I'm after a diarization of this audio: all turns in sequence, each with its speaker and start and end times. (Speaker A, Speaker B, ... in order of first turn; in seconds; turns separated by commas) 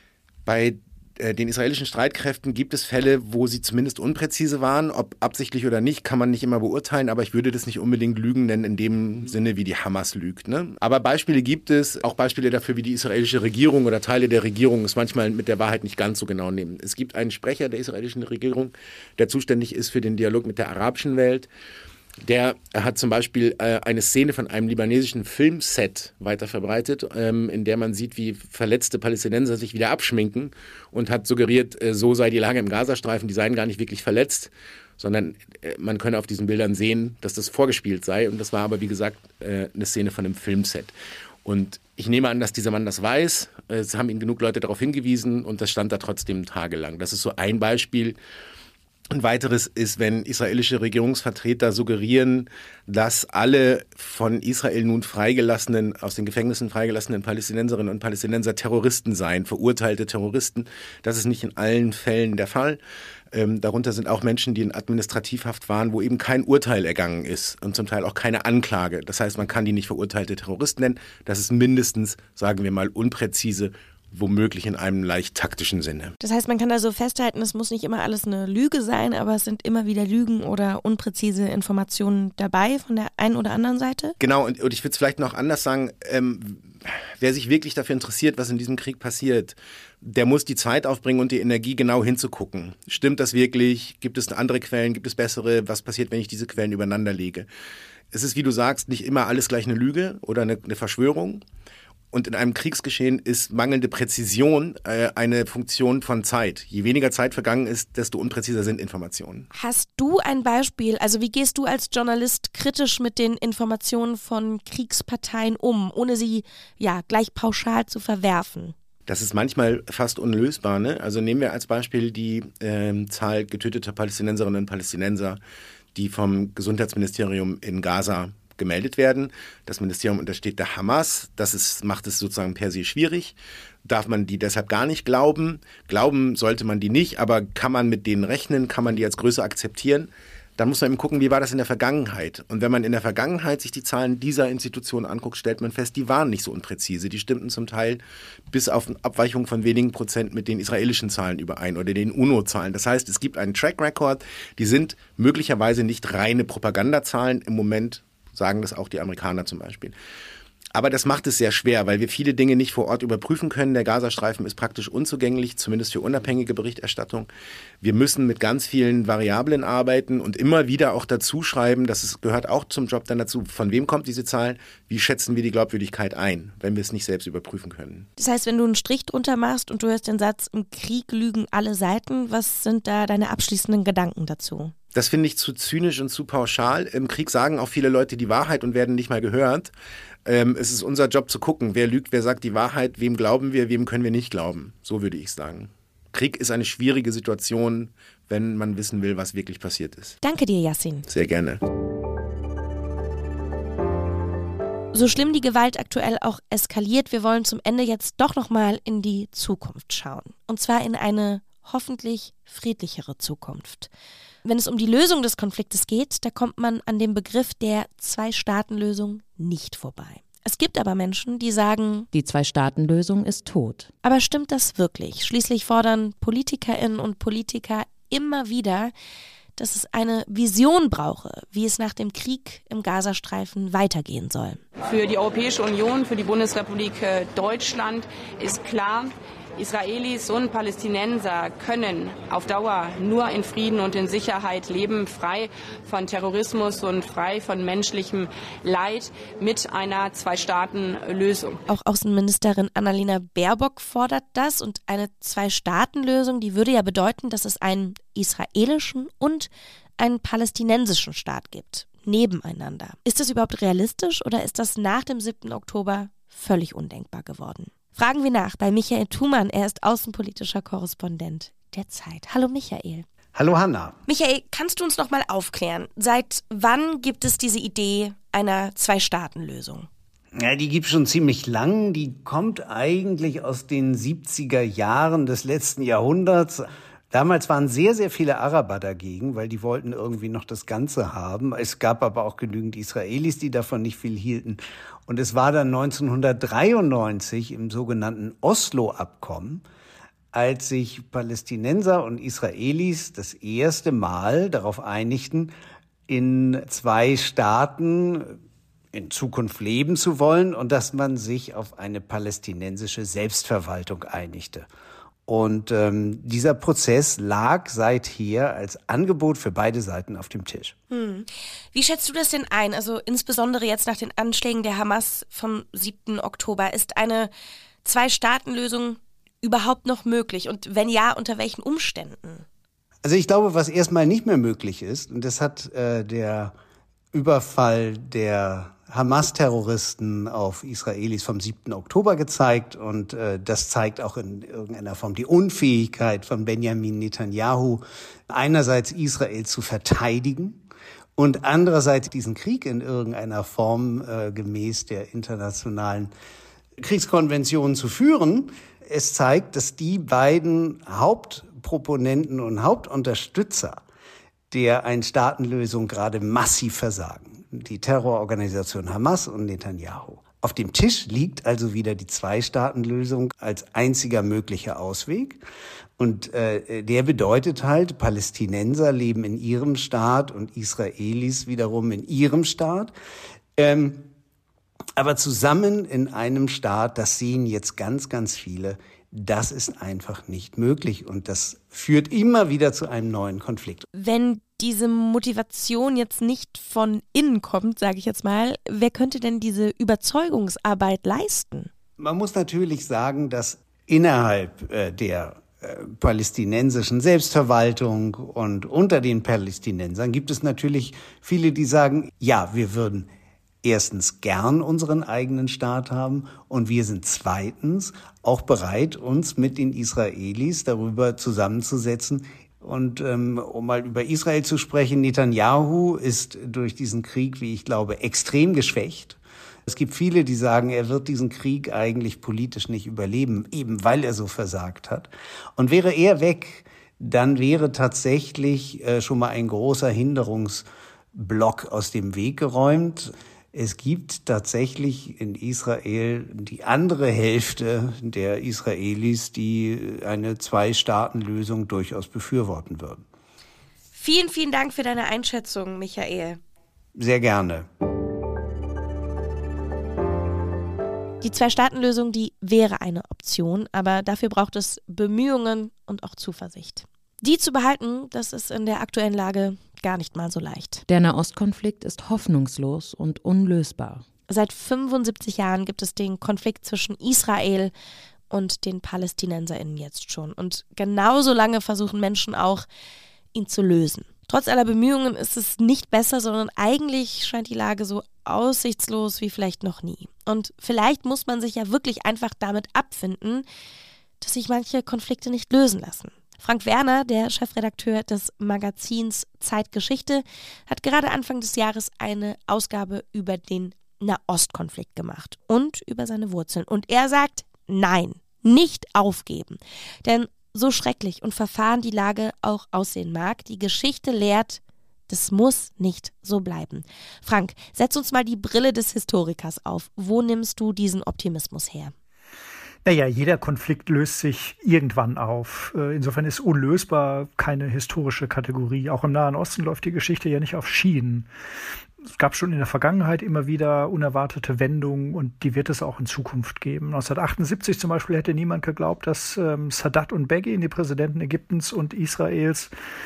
Speaker A: 0.5-21.5, Speaker A: 22.2-40.9, Speaker A: 41.5-48.2, Speaker A: 49.1-62.8, Speaker A: 63.3-76.2, Speaker B: 76.2-84.2, Speaker A: 84.2-97.5, Speaker A: 98.1-101.4, Speaker A: 102.1-109.5, Speaker B: 109.5-118.8, Speaker A: 119.1-125.4, Speaker A: 126.0-159.9, Speaker A: 160.7-167.3, Speaker A: 167.8-178.1, Speaker B: 178.2-184.7, Speaker A: 184.9-189.7, Speaker A: 190.2-200.2, Speaker B: 200.2-201.1, Speaker A: 201.1-201.6, Speaker B: 204.9-213.9, Speaker B: 214.4-222.1, Speaker C: 222.1-223.9, Speaker B: 224.0-228.9, Speaker B: 229.6-234.6, Speaker D: 234.8-251.6, Speaker B: 251.7-273.1, Speaker E: 273.4-274.0, Speaker B: 274.1-279.9, Speaker E: 280.4-299.6, Speaker E: 300.3-305.5, Speaker E: 306.1-308.4, Speaker E: 308.9-314.7, Speaker E: 315.3-320.8, Speaker B: 320.9-327.3, Speaker B: 327.8-332.4, Speaker E: 333.0-336.5, Speaker E: 337.1-350.6, Speaker E: 351.2-356.1, Speaker E: 356.8-363.8, Speaker E: 364.5-375.4, Speaker E: 376.0-382.9, Speaker E: 383.6-384.1, Speaker E: 385.0-393.9, Speaker B: 393.9-401.7, Speaker E: 402.0-413.1, Speaker E: 413.6-453.0, Speaker B: 453.9-456.4, Speaker E: 457.0-457.7, Speaker B: 461.2-470.8, Speaker C: 470.9-474.1, Speaker B: 474.3-477.7, Speaker B: 478.3-482.7, Speaker B: 483.3-493.5, Speaker B: 494.2-521.9, Speaker F: 522.9-531.3, Speaker F: 532.0-542.7